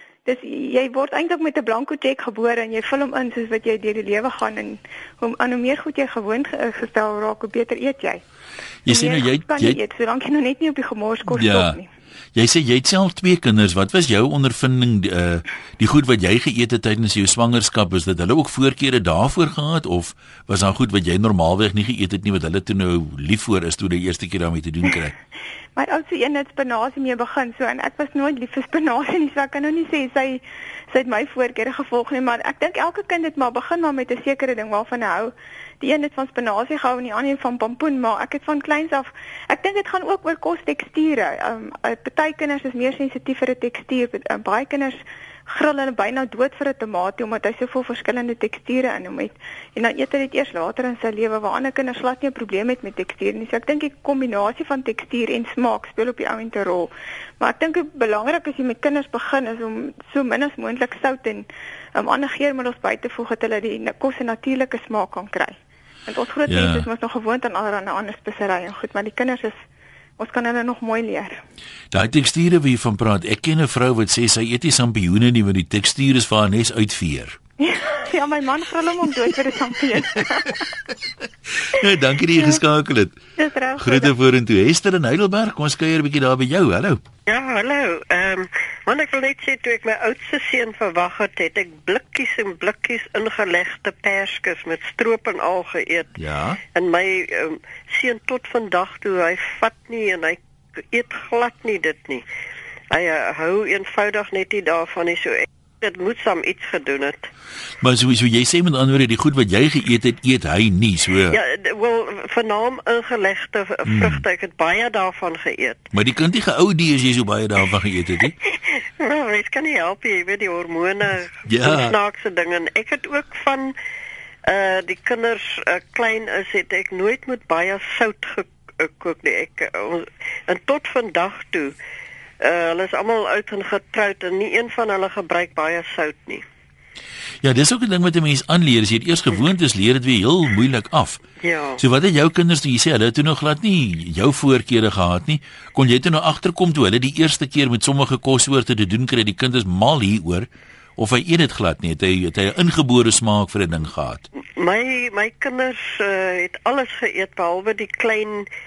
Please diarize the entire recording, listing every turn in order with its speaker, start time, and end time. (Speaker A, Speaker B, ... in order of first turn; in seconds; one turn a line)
Speaker A: 0.2-8.2
Speaker B: 8.8-9.8
Speaker A: 8.9-11.9
Speaker B: 11.3-11.8
Speaker B: 12.3-25.1
Speaker A: 25.8-45.0
Speaker A: 45.5-69.6
Speaker B: 66.5-66.9
Speaker A: 70.2-71.4
Speaker B: 71.9-77.4
Speaker A: 77.6-80.6
Speaker B: 81.6-83.2
Speaker A: 83.4-84.1
Speaker B: 83.8-87.0
Speaker C: 87.2-96.1
Speaker B: 96.2-96.6
Speaker C: 96.7-102.2
Speaker C: 102.9-107.3
Speaker B: 107.8-111.4
Speaker C: 111.3-115.9
Speaker B: 113.9-114.2
Speaker B: 115.9-118.3
Speaker C: 118.5-123.7
Speaker B: 121.5-121.9
Speaker C: 124.4-131.7
Speaker C: 132.4-136.4
Speaker B: 137.4-141.2
Speaker C: 141.4-141.8
Speaker B: 141.8-154.2
Speaker C: 154.6-158.5